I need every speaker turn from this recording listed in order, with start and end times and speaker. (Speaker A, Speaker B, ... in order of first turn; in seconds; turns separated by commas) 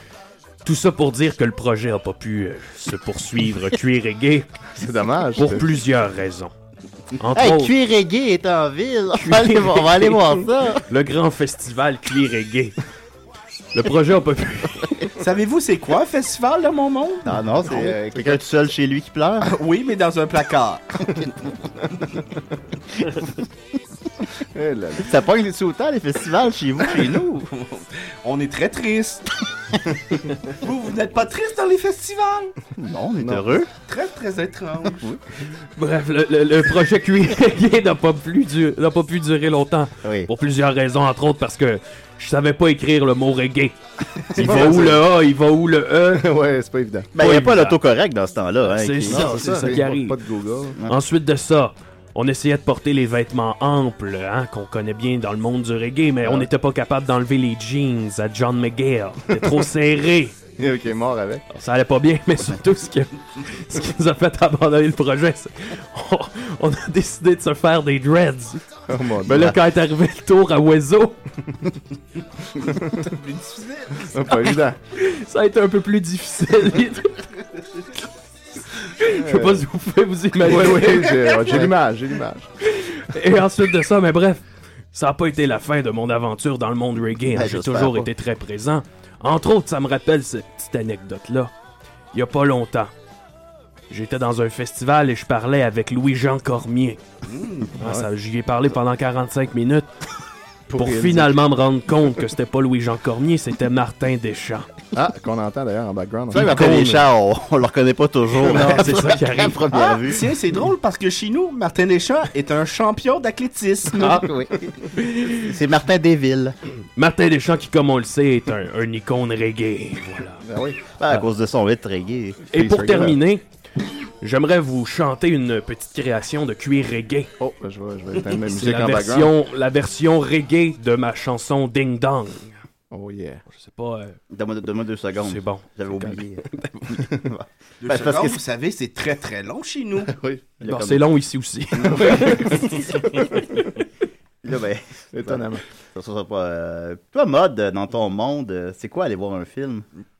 Speaker A: 0.6-4.5, Speaker B: 4.7-5.7, Speaker A: 5.3-6.5, Speaker A: 7.2-7.7, Speaker C: 7.3-10.8, Speaker A: 9.2-10.3, Speaker A: 10.9-12.8, Speaker A: 13.7-15.1, Speaker D: 15.2-17.4, Speaker C: 17.2-19.5, Speaker B: 17.6-18.4, Speaker D: 19.4-21.3, Speaker B: 24.5-25.1, Speaker C: 25.0-27.4, Speaker D: 27.4-29.3, Speaker D: 30.5-32.5, Speaker C: 32.7-33.7, Speaker B: 33.2-33.6, Speaker D: 33.8-35.1, Speaker C: 34.9-35.2, Speaker A: 35.8-43.8, Speaker C: 40.0-40.3, Speaker C: 44.3-45.0, Speaker A: 44.3-46.3, Speaker B: 44.4-45.0, Speaker B: 46.1-47.1, Speaker C: 47.1-49.8, Speaker A: 47.2-47.8, Speaker A: 48.6-50.2, Speaker B: 49.0-50.8, Speaker A: 50.9-60.4, Speaker B: 60.6-61.4, Speaker A: 61.5-68.6, Speaker B: 68.9-69.6, Speaker A: 69.2-71.2, Speaker B: 72.6-73.1, Speaker D: 73.0-74.2, Speaker B: 74.1-74.8, Speaker A: 74.4-77.2, Speaker A: 78.8-81.7, Speaker B: 79.0-79.7, Speaker B: 80.4-82.5, Speaker D: 80.9-81.7, Speaker A: 82.6-91.5, Speaker C: 87.2-88.1, Speaker A: 92.1-92.9, Speaker A: 93.9-97.0, Speaker D: 97.3-97.7, Speaker A: 97.8-100.1, Speaker B: 97.8-98.1, Speaker B: 100.7-101.4, Speaker A: 100.8-104.7, Speaker B: 104.9-106.7, Speaker C: 106.3-110.3, Speaker A: 106.3-107.0, Speaker B: 108.4-109.1, Speaker A: 108.4-109.7, Speaker D: 109.7-114.2, Speaker A: 114.0-114.3, Speaker C: 114.0-116.5, Speaker A: 115.0-115.5, Speaker A: 117.0-120.4, Speaker B: 120.4-120.8, Speaker C: 120.9-122.5, Speaker A: 122.5-123.4, Speaker B: 122.5-123.2, Speaker A: 124.2-127.3, Speaker B: 127.4-129.3, Speaker A: 128.4-132.6, Speaker B: 132.9-133.4, Speaker A: 133.5-134.2, Speaker C: 134.3-138.4, Speaker A: 135.2-136.9, Speaker D: 137.8-140.1, Speaker B: 140.1-140.5, Speaker C: 140.6-141.1, Speaker A: 140.6-142.7, Speaker B: 141.8-143.2, Speaker C: 141.8-143.5, Speaker C: 144.4-149.8, Speaker B: 145.1-145.6